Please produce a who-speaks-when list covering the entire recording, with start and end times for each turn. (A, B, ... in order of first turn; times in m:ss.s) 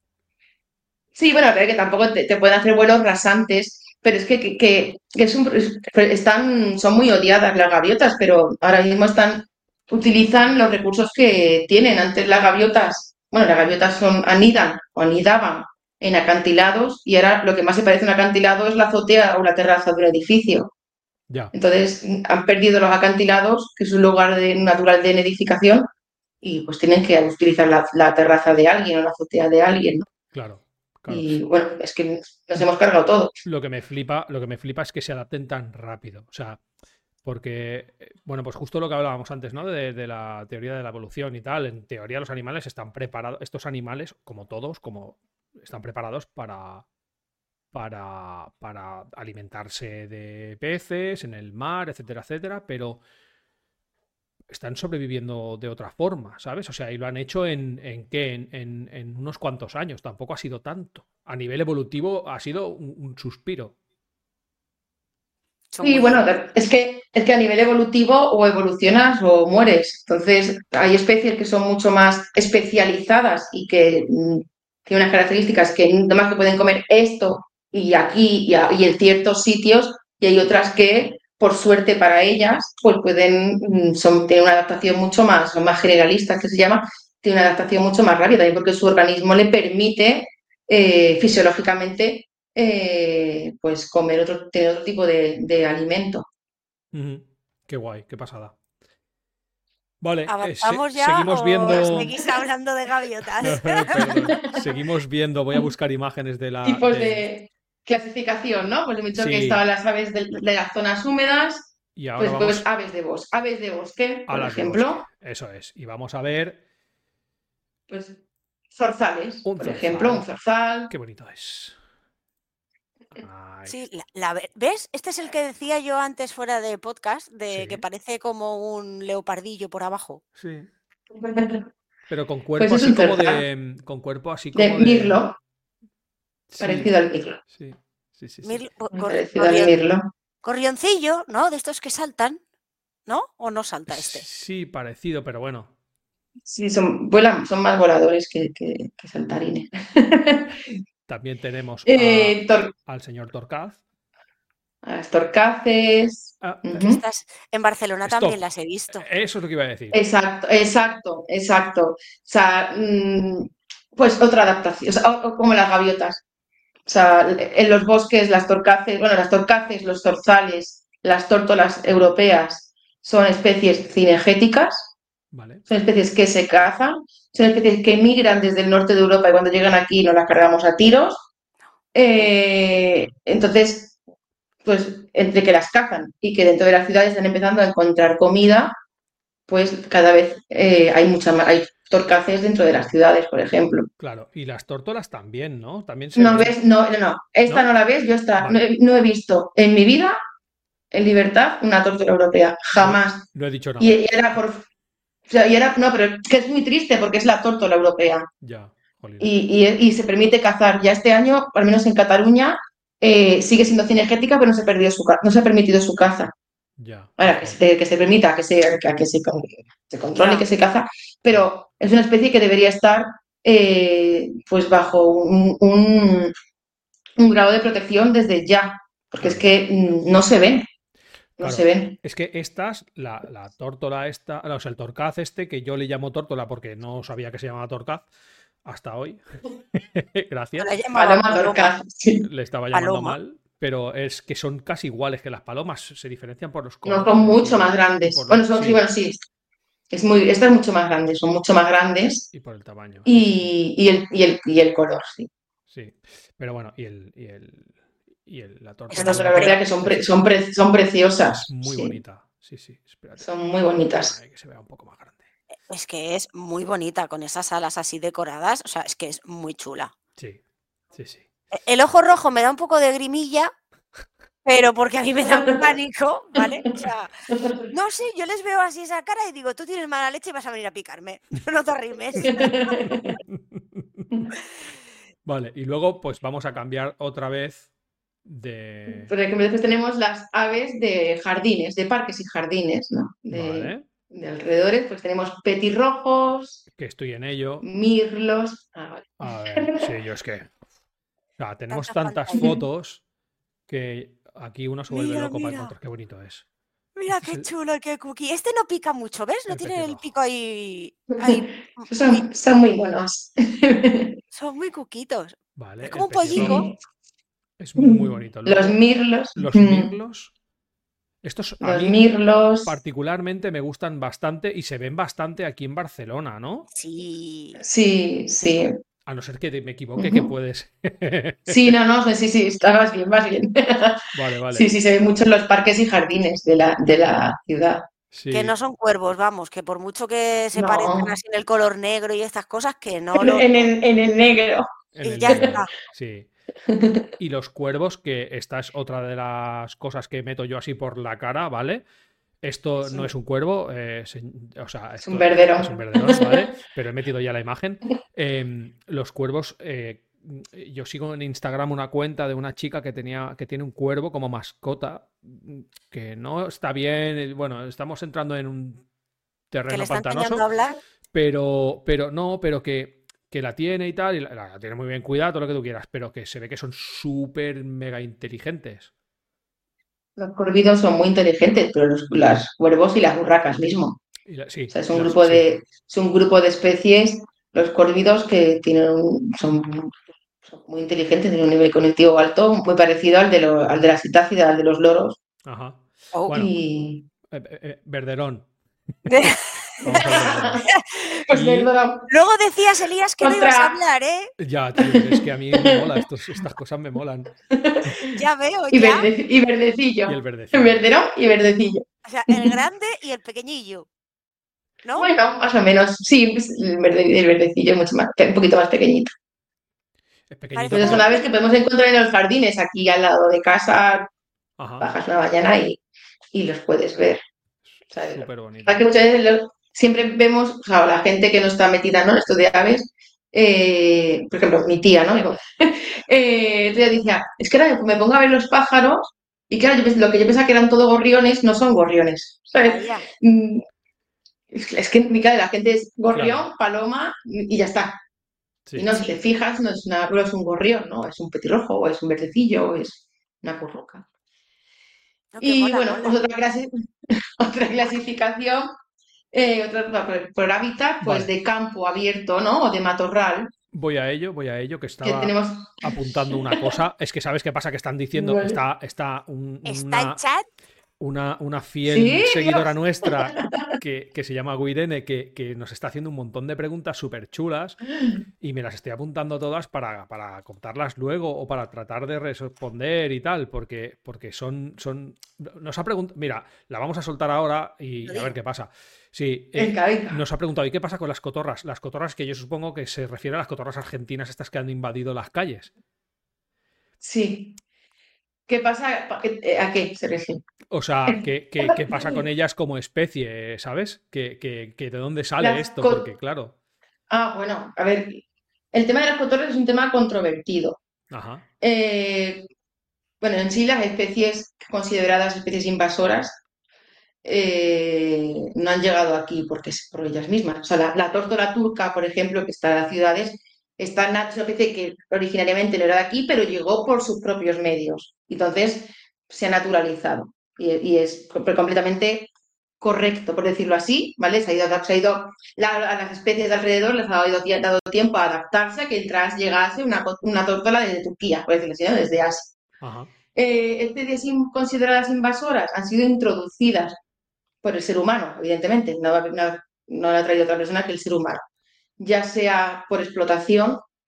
0:01.2-0:20.7 A
0:21.5-0:25.9 A
0:26.4-0:30.1 A
0:30.3-0:31.3 B
0:31.1-0:33.4 A
0:33.4-0:36.6 B
0:37.2-0:46.8 B
0:47.7-0:53.0 B
0:54.5-1:03.8 B
1:05.7-1:06.3 C
1:05.8-1:36.3 A
1:36.9-1:38.6 B
1:40.0-1:42.1 B
1:40.3-1:44.1 C
1:41.7-1:42.4 A
1:43.4-1:47.3 B
1:44.0-1:44.7 A
1:46.6-1:55.0 A
1:49.2-1:49.6 B
1:52.0-1:52.7 B
1:54.3-1:56.6 B
1:57.9-1:58.2 A
1:58.7-2:00.9 A
1:59.4-2:00.3 B
2:00.9-2:01.8 B
2:03.2-2:03.8 B
2:03.7-2:10.2 C
2:07.5-2:07.8 B
2:10.4-2:10.7 B
2:11.1-2:11.7 A
2:12.1-2:15.2 B
2:12.6-2:13.4 A
2:14.5-2:15.4 A
2:16.5-2:16.9 B
2:16.6-2:17.4 A
2:17.5-2:18.6 B
2:18.4-2:19.8 C
2:18.9-2:20.1 A
2:20.4-2:22.4 C
2:23.1-2:24.3 C
2:23.9-2:25.7 B
2:26.4-2:30.8 A
2:31.1-2:33.8 B
2:31.9-2:32.7 A
2:34.8-2:37.0 A
2:36.4-2:36.8 B
2:36.8-2:39.1 C
2:38.1-2:38.4 B
2:38.9-2:40.0 B
2:39.9-2:46.2 A
2:46.9-2:54.9 A
2:55.3-2:55.6 B
2:55.7-3:01.2 A
3:01.9-3:04.0 A
3:04.6-3:08.7 A
3:09.5-3:13.9 A
3:14.0-3:16.6 B
3:16.2-3:20.2 A
3:18.4-3:18.6 B
3:20.9-3:23.3 A
3:22.8-3:24.0 B
3:23.8-3:24.6 A
3:25.3-3:28.3 A
3:28.4-3:29.3 B
3:29.2-3:36.3 A
3:36.8-3:37.6 B
3:37.2-3:46.3 A
3:40.2-3:40.5 C
3:47.2-3:50.6 A
3:49.2-3:49.5 B
3:51.4-3:52.0 A
3:51.4-3:58.1 B
3:58.6-3:59.2 B
3:59.8-4:00.7 B
4:00.6-4:01.8 C
4:00.9-4:02.3 A
4:02.2-4:08.8 B
4:02.7-4:03.2 C
4:06.8-4:09.2 A
4:09.9-4:12.3 A
4:12.3-4:13.5 B
4:13.0-4:15.3 A
4:15.7-4:20.1 B
4:18.9-4:19.6 C
4:19.0-4:22.0 A
4:21.4-4:23.3 B
4:23.2-4:24.2 A
4:23.9-4:25.3 B
4:25.7-4:29.9 C
4:31.0-4:31.2 B
4:31.5-4:33.5 C
4:34.4-4:37.1 C
4:35.3-4:35.6 A
4:37.3-4:37.6 A
4:37.7-4:42.5 C
4:42.2-4:43.2 A
4:42.9-4:44.1 B
4:45.2-4:47.7 B
4:48.2-4:49.1 B
4:48.9-4:56.6 A
4:53.3-4:53.9 B
4:56.7-4:57.6 B
4:57.6-4:59.9 A
4:59.2-5:00.5 B
5:01.4-5:03.0 B
5:01.7-5:02.5 C
5:03.7-5:06.4 B
5:04.9-5:05.7 C
5:07.0-5:12.2 C
5:07.1-5:07.5 B
5:09.5-5:10.0 B
5:11.2-5:14.2 A
5:14.3-5:16.7 C
5:15.6-5:16.7 B
5:16.4-5:16.8 A
5:17.6-5:18.8 B
5:17.8-5:19.9 A
5:19.4-5:20.3 B
5:21.2-5:22.0 B
5:21.6-5:22.7 A
5:22.6-5:26.7 B
5:26.7-5:27.6 C
5:27.6-5:28.7 A
5:29.1-5:31.8 B
5:30.0-5:30.3 A
5:31.5-5:37.9 A
5:34.1-5:34.7 B
5:38.1-5:38.5 B
5:38.3-5:43.7 C
5:40.6-5:41.1 A
5:43.2-5:44.7 A
5:45.0-5:46.3 B
5:45.0-5:45.7 C
5:45.3-5:45.6 A
5:46.7-5:47.1 A
5:47.2-5:51.8 B
5:52.4-6:08.8 B
5:52.8-5:53.1 A
5:55.0-5:56.5 A
6:09.5-6:10.4 B
6:09.7-6:10.8 C
6:11.1-6:18.9 B
6:20.2-6:24.0 A
6:24.3-6:25.5 B
6:24.7-6:35.2 A
6:35.5-6:36.5 B
6:36.1-6:36.4 C
6:36.3-6:37.1 A
6:37.3-6:38.5 B
6:39.0-6:41.3 C
6:39.8-6:40.7 B
6:39.9-6:40.6 A
6:41.3-6:42.1 A
6:41.3-6:41.7 B
6:42.1-6:44.3 C
6:43.2-6:43.8 A
6:44.4-6:47.3 B
6:44.8-6:46.0 A
6:47.5-6:48.2 A
6:48.0-6:49.1 C
6:48.7-6:52.6 A
6:50.1-6:50.8 B
6:52.0-6:53.9 C
6:54.8-6:55.1 C
6:55.0-6:59.1 A
7:00.3-7:01.1 B
7:00.6-7:01.3 C
7:00.7-7:04.1 A
7:04.6-7:04.9 B
7:04.8-7:05.8 A
7:06.3-7:07.2 A
7:07.9-7:23.6 A
7:08.1-7:08.8 B
7:22.6-7:23.1 C
7:24.5-7:28.0 A
7:26.1-7:26.4 B
7:28.8-7:34.0 A
7:35.3-7:36.2 C
7:35.4-7:38.7 A
7:39.3-7:43.5 A
7:41.0-7:41.3 B
7:43.7-7:50.2 B
7:45.0-7:46.7 A
7:48.1-7:48.6 A
7:49.6-7:50.5 C
7:51.0-7:57.8 B
7:51.8-7:53.8 A
7:58.4-8:15.7 B
8:08.0-8:08.3 C
8:09.6-8:10.2 A
8:17.0-8:17.6 A
8:18.5-8:20.4 A
8:20.7-8:26.5 B
8:21.1-8:22.2 A
8:25.4-8:26.1 A
8:27.1-8:30.8 A
8:31.1-8:31.4 B
8:31.6-8:32.5 A
8:33.2-8:36.4 A
8:37.2-8:52.3 A
8:52.8-9:02.6 A
9:02.8-9:03.1 B
9:03.4-9:07.0 A
9:07.6-9:11.4 A
9:12.0-9:13.8 A